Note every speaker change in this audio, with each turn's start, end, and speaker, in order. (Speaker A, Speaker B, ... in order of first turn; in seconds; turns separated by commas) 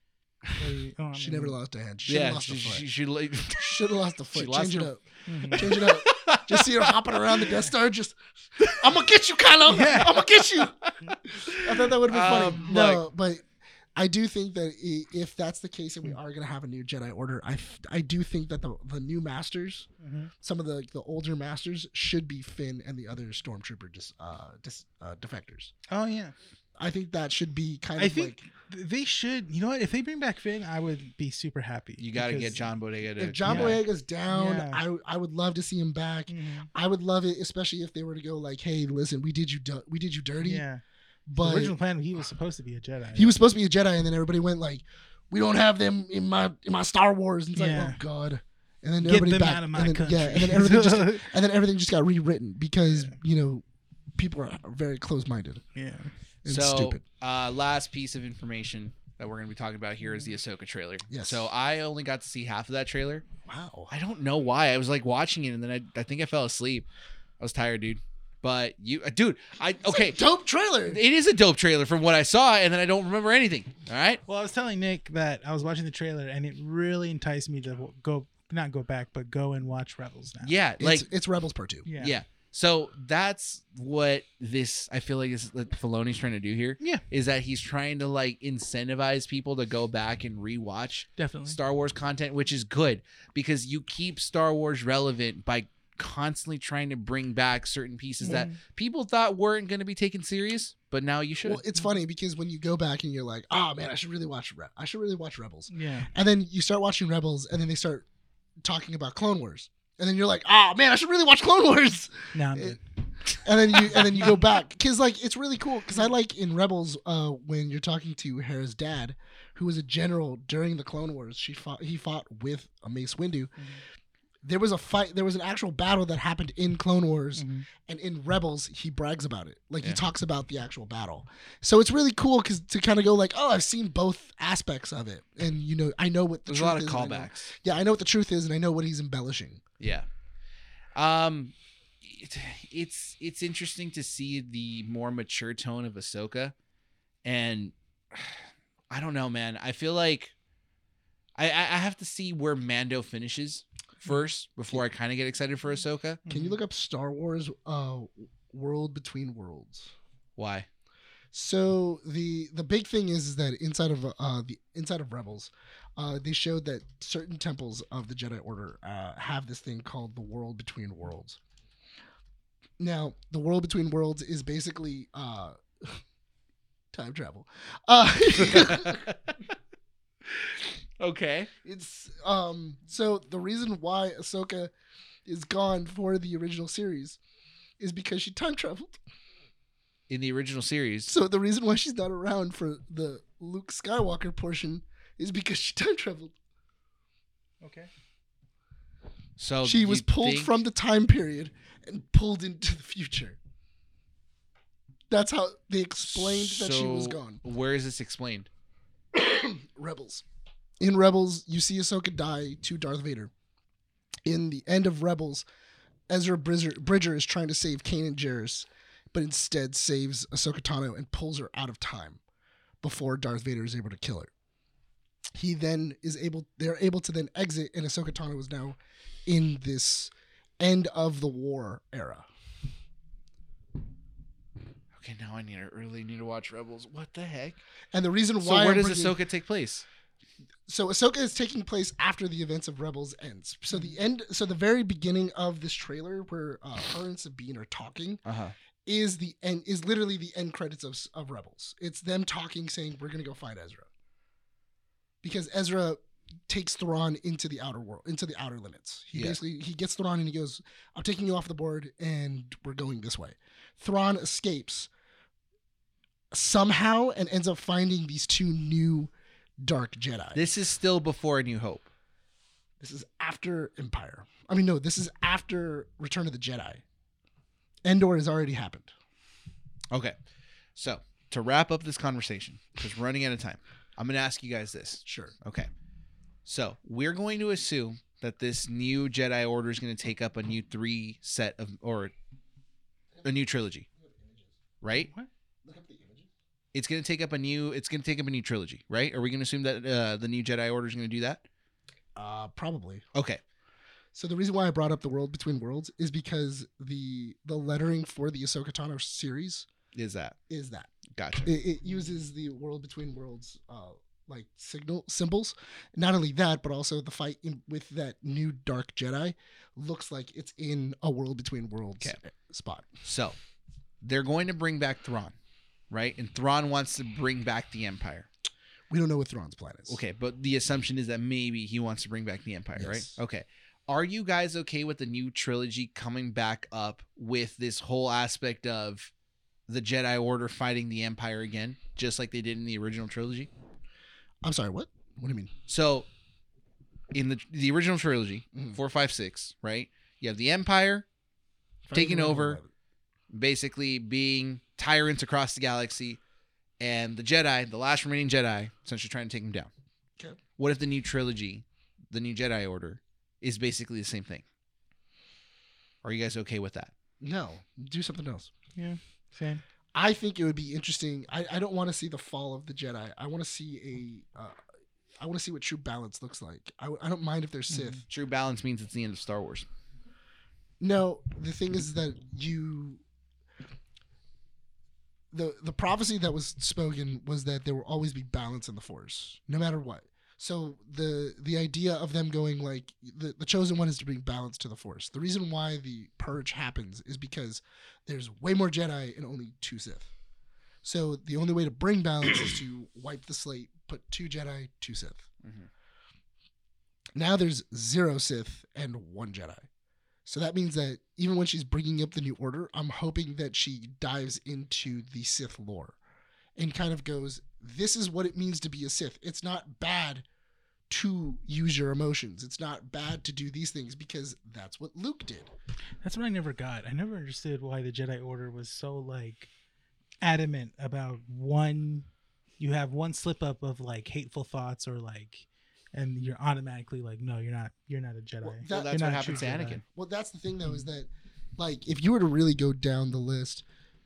Speaker A: 0.6-1.6, Speaker B: 1.1-2.9, Speaker C: 2.1-4.9, Speaker B: 3.6-19.9, Speaker A: 5.3-5.8, Speaker C: 5.5-7.5, Speaker A: 9.7-10.3, Speaker C: 11.4-13.1, Speaker A: 20.0-20.3, Speaker B: 20.4-25.7, Speaker A: 25.9-26.4, Speaker B: 26.8-28.4, Speaker A: 28.0-32.7, Speaker C: 32.0-33.8, Speaker B: 33.2-40.6, Speaker A: 33.4-34.8, Speaker A: 36.3-36.7, Speaker A: 40.4-43.4, Speaker B: 41.3-41.8, Speaker B: 43.1-53.6, Speaker A: 47.6-48.0, Speaker A: 49.0-51.3, Speaker A: 52.9-53.1, Speaker B: 54.2-55.6, Speaker A: 55.7-56.1, Speaker B: 56.4-57.0, Speaker C: 56.5-63.2, Speaker A: 60.0-60.4, Speaker B: 61.1-61.5, Speaker B: 63.4-63.9, Speaker C: 63.9-66.9, Speaker C: 67.4-70.2, Speaker B: 69.8-71.0, Speaker C: 70.9-74.2, Speaker A: 74.3-80.5, Speaker C: 80.4-81.1, Speaker B: 80.8-81.9, Speaker A: 81.8-82.2, Speaker C: 82.0-101.6, Speaker A: 91.2-91.6, Speaker A: 98.2-98.6, Speaker B: 98.2-98.5, Speaker B: 101.4-108.1, Speaker A: 105.7-106.1, Speaker B: 108.6-112.8, Speaker A: 112.3-112.8, Speaker B: 113.3-123.5, Speaker A: 113.9-114.4, Speaker B: 124.4-139.6, Speaker A: 127.4-127.7, Speaker C: 136.5-137.5, Speaker C: 139.8-140.1, Speaker C: 140.9-146.5, Speaker C: 147.2-150.3, Speaker C: 151.4-156.2, Speaker A: 156.2-156.6, Speaker B: 156.3-159.9, Speaker C: 160.4-160.7, Speaker B: 161.3-171.4, Speaker B: 172.8-176.0, Speaker B: 176.9-179.1, Speaker C: 178.5-179.4, Speaker C: 180.5-181.5, Speaker B: 181.6-184.7, Speaker B: 185.3-187.2, Speaker B: 187.8-189.0, Speaker C: 190.1-191.1, Speaker B: 191.1-196.3, Speaker A: 197.6-197.9, Speaker C: 199.4-200.5, Speaker B: 199.6-203.4, Speaker B: 205.1-207.4, Speaker C: 206.0-208.5, Speaker B: 209.1-210.2, Speaker B: 210.8-213.3, Speaker B: 214.3-215.4, Speaker B: 216.1-222.2, Speaker B: 222.8-224.3, Speaker B: 225.3-232.3, Speaker C: 234.9-237.6, Speaker B: 237.9-239.2, Speaker C: 238.4-239.8, Speaker B: 240.7-248.2, Speaker C: 248.2-248.6, Speaker B: 248.9-253.9, Speaker B: 255.2-264.9, Speaker B: 266.3-269.1, Speaker B: 269.6-270.4, Speaker C: 270.3-271.9, Speaker B: 272.8-276.8, Speaker B: 277.9-278.9, Speaker C: 280.7-285.7, Speaker B: 285.1-285.3, Speaker C: 286.4-292.1, Speaker C: 293.2-293.9, Speaker B: 294.0-294.6, Speaker C: 294.8-295.1, Speaker A: 294.9-295.3, Speaker B: 295.6-296.3, Speaker C: 296.7-301.4, Speaker B: 302.1-303.1, Speaker C: 303.1-303.4, Speaker B: 304.1-309.7, Speaker C: 309.9-310.4, Speaker B: 310.5-310.9, Speaker C: 311.1-311.5, Speaker B: 311.4-322.9, Speaker C: 323.0-323.4, Speaker C: 324.0-325.4, Speaker C: 325.9-328.3, Speaker B: 328.9-330.0, Speaker C: 329.9-339.1, Speaker B: 332.8-333.2, Speaker C: 339.7-343.5, Speaker B: 344.4-345.5, Speaker C: 345.7-346.1, Speaker C: 347.1-351.1, Speaker B: 348.5-348.8, Speaker B: 351.9-352.7, Speaker C: 351.9-352.6, Speaker C: 353.3-356.2, Speaker C: 356.8-359.7, Speaker C: 360.6-364.4, Speaker C: 366.0-366.9, Speaker B: 367.2-368.5, Speaker A: 368.8-369.6, Speaker B: 369.9-374.6, Speaker B: 375.2-378.0, Speaker A: 377.7-378.0, Speaker C: 378.1-379.6, Speaker B: 380.8-383.0, Speaker B: 385.3-400.1, Speaker B: 400.8-405.3, Speaker C: 405.4-405.7, Speaker B: 407.1-409.7, Speaker B: 410.2-415.9, Speaker B: 416.6-420.2, Speaker B: 420.9-425.5, Speaker A: 426.0-429.5, Speaker A: 430.2-432.1, Speaker A: 432.6-439.8, Speaker B: 438.4-443.6, Speaker C: 438.7-439.8